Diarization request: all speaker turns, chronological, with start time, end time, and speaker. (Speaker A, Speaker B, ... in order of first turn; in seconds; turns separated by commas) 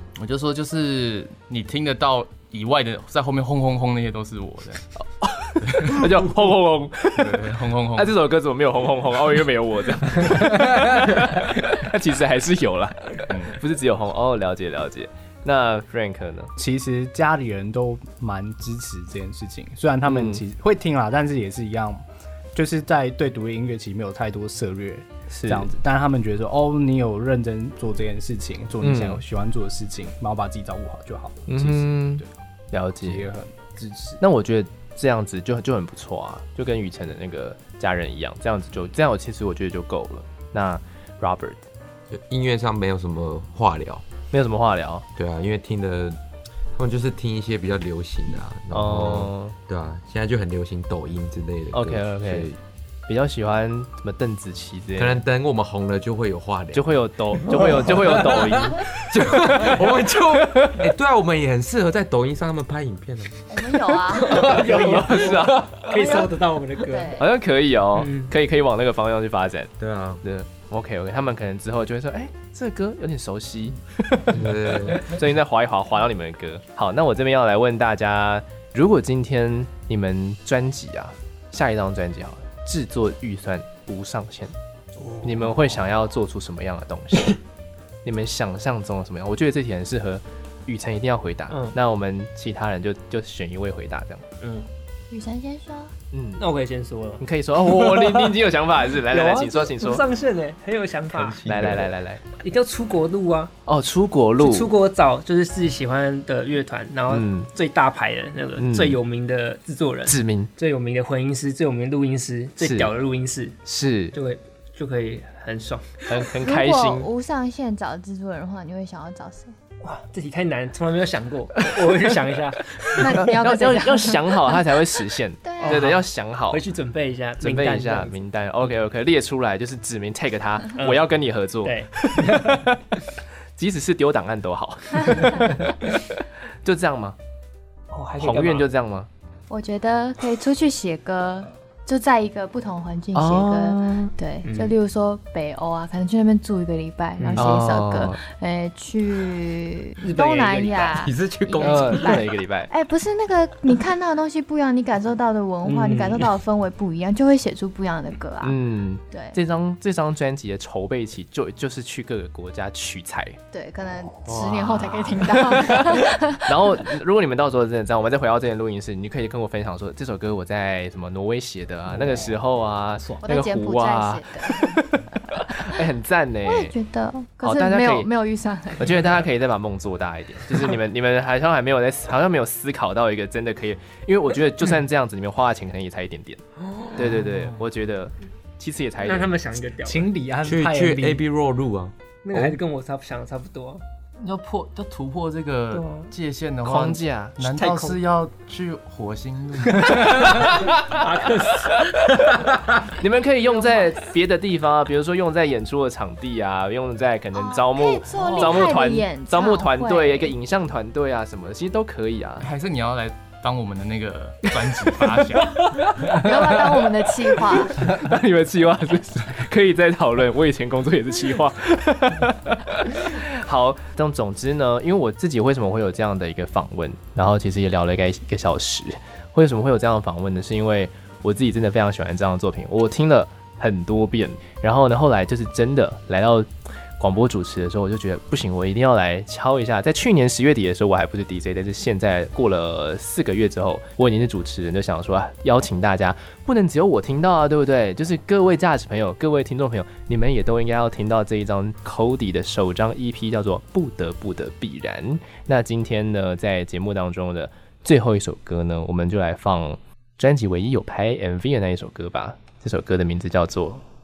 Speaker A: 0.2-4.8, Speaker B: 5.0-16.5, Speaker A: 5.6-6.0, Speaker A: 7.2-8.1, Speaker A: 13.3-13.6, Speaker C: 16.6-22.0, Speaker B: 20.0-20.4, Speaker C: 22.5-32.4, Speaker B: 25.3-25.7, Speaker B: 28.8-29.2, Speaker B: 31.5-33.2, Speaker C: 33.0-34.2, Speaker B: 34.2-41.6, Speaker D: 42.1-44.0, Speaker B: 44.3-45.0, Speaker D: 45.1-46.2, Speaker D: 46.7-52.5, Speaker B: 48.7-49.5, Speaker B: 51.7-52.5, Speaker B: 53.1-55.2, Speaker D: 55.0-56.9, Speaker B: 56.7-58.8, Speaker D: 57.5-63.3, Speaker B: 60.4-60.8, Speaker E: 63.5-64.6, Speaker F: 64.2-67.2, Speaker B: 64.3-65.9, Speaker E: 65.9-67.2, Speaker B: 67.2-84.5, Speaker F: 68.0-68.3, Speaker D: 69.8-70.2, Speaker D: 74.3-75.1, Speaker F: 85.0-85.8, Speaker B: 85.2-87.4, Speaker B: 88.0-94.2, Speaker F: 91.5-91.8, Speaker F: 94.4-94.7, Speaker E: 95.1-95.9, Speaker B: 96.1-96.4, Speaker F: 96.4-98.4, Speaker B: 97.2-100.0, Speaker F: 98.9-101.5, Speaker D: 101.1-102.0, Speaker B: 101.5-102.2, Speaker F: 102.3-103.5, Speaker B: 103.7-104.7, Speaker F: 104.4-113.6, Speaker B: 107.1-107.5, Speaker B: 108.6-109.0, Speaker B: 110.0-110.5, Speaker B: 112.6-112.9, Speaker B: 113.6-114.2, Speaker F: 114.1-116.3, Speaker B: 116.1-117.1, Speaker E: 116.4-119.5, Speaker F: 119.8-123.1, Speaker E: 123.0-124.2, Speaker B: 123.2-126.6, Speaker E: 125.4-125.9, Speaker F: 125.6-128.2, Speaker B: 127.4-132.7, Speaker F: 130.8-131.1, Speaker F: 131.6-132.7, Speaker B: 133.6-136.0, Speaker B: 136.6-137.2, Speaker F: 137.9-138.7, Speaker B: 138.2-139.1, Speaker E: 139.5-158.6, Speaker B: 143.1-144.1, Speaker F: 144.4-144.7, Speaker F: 147.2-147.6, Speaker B: 147.3-148.2, Speaker F: 150.0-151.1, Speaker D: 151.0-152.1, Speaker B: 151.6-152.7, Speaker F: 155.6-156.3, Speaker B: 158.4-163.4, Speaker E: 159.1-159.4, Speaker E: 163.5-166.7, Speaker B: 164.3-176.7, Speaker E: 173.2-175.8, Speaker E: 176.4-179.2, Speaker B: 177.4-178.1, Speaker B: 178.8-186.4, Speaker B: 186.9-189.3, Speaker F: 189.0-190.1, Speaker C: 189.8-191.2, Speaker D: 190.4-192.6, Speaker F: 192.2-193.8, Speaker A: 194.2-200.3, Speaker F: 195.7-196.1, Speaker B: 196.6-197.4, Speaker F: 197.4-198.0, Speaker F: 199.8-202.4, Speaker B: 200.0-202.0, Speaker B: 202.9-212.5, Speaker E: 203.6-203.9, Speaker E: 207.3-210.3, Speaker A: 212.4-215.8, Speaker E: 216.2-217.8, Speaker B: 217.8-263.8